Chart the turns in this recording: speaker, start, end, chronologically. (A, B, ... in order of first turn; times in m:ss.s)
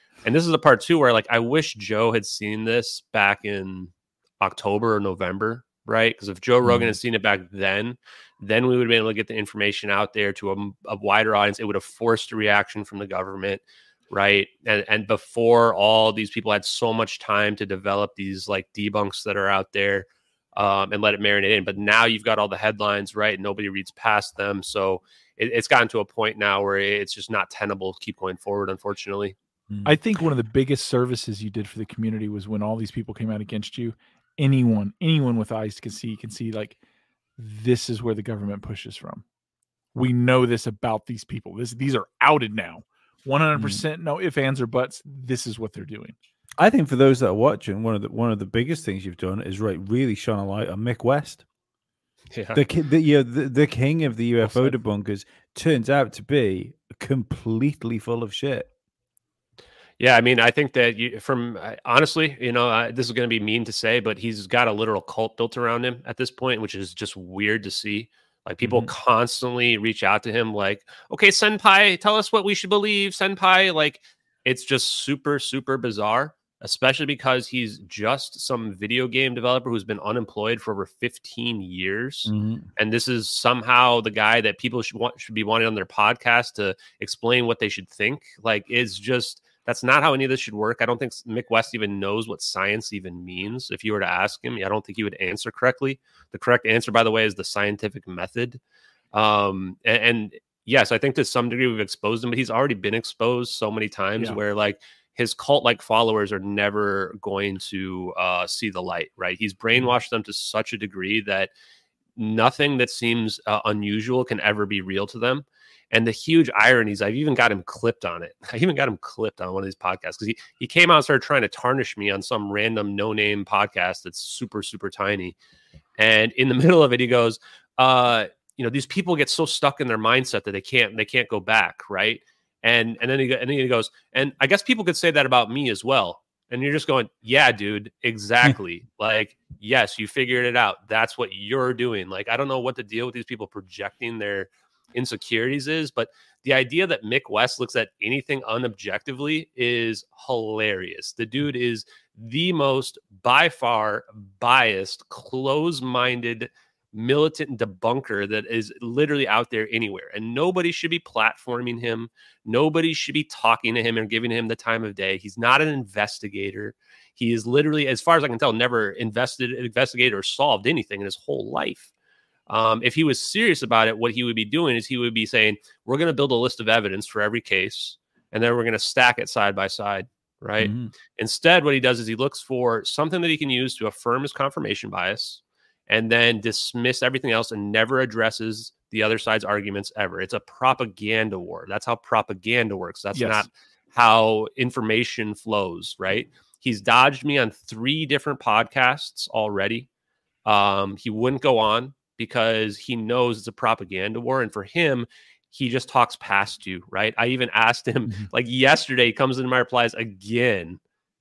0:00.2-0:29.3 A
0:06.6-0:06.9 B
0:29.7-0:30.0 B
0:29.8-0:36.8 C
0:37.4-0:39.2 C
0:39.9-0:46.1 C
0:43.6-0:43.8 B
0:46.6-0:51.4 B
0:52.3-0:52.6 A
0:52.5-0:58.7 B
0:54.4-0:54.7 C
1:00.0-1:38.6 A
1:08.6-1:08.9 B
1:22.2-1:22.7 B
1:39.1-1:51.5 A
1:52.2-2:05.4 A
2:06.0-2:51.9 A
2:52.5-3:19.9 A
3:00.6-3:00.9 B
3:13.1-3:13.5 C
3:20.4-3:30.8 A